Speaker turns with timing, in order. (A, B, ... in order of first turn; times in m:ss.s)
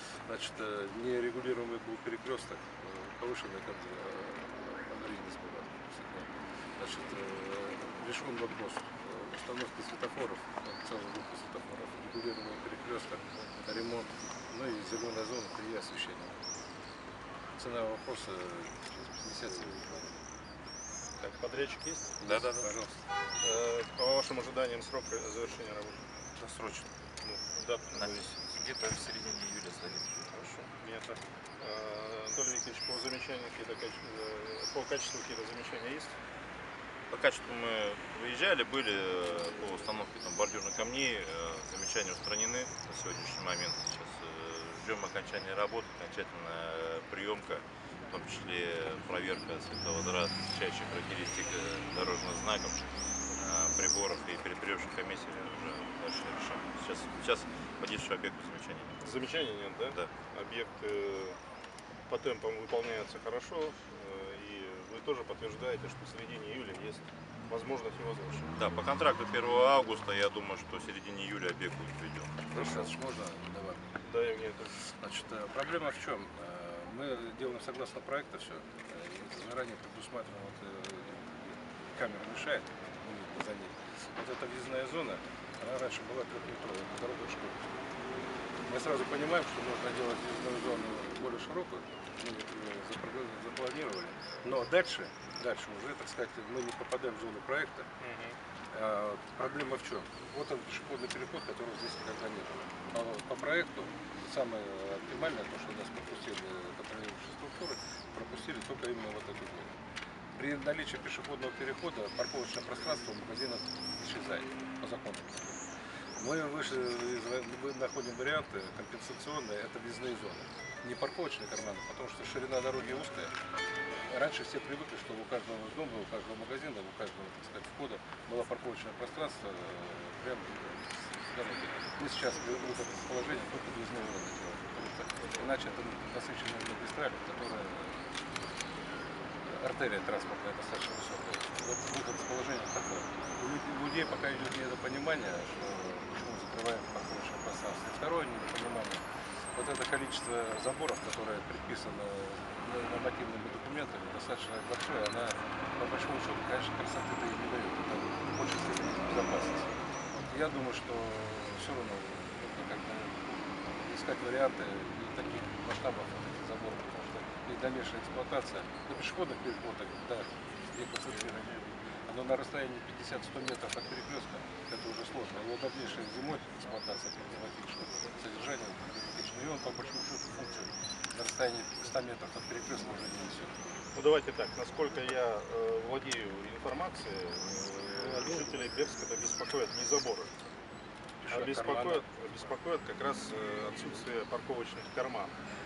0:00.2-0:16.4 A
0:17.6-0:20.3 A
0:21.2-0:22.2 B
0:22.2-0:23.0 A
0:22.2-0:22.7 C
0:23.4-0:26.1 B
0:26.4-0:26.8 C
0:26.5-0:26.8 A
0:27.2-0:28.3 B
0:27.9-0:30.3 C
0:30.3-0:36.2 B
0:37.1-0:59.2 C
0:59.0-1:01.4 B
0:59.9-1:00.1 C
1:02.1-1:08.5 B
1:08.5-1:12.9 C
1:12.5-1:14.0 A
1:14.0-1:14.8 B
1:14.8-1:27.7 A
1:28.6-1:37.9 A
1:38.0-1:38.3 C
1:38.7-1:49.8 A
1:50.3-1:55.6 A
1:56.2-2:03.3 A
2:04.0-2:18.2 A
2:19.4-3:03.6 A
3:03.9-3:10.3 B
3:07.9-3:08.6 A
3:11.2-3:12.1 A
3:11.3-3:15.4 B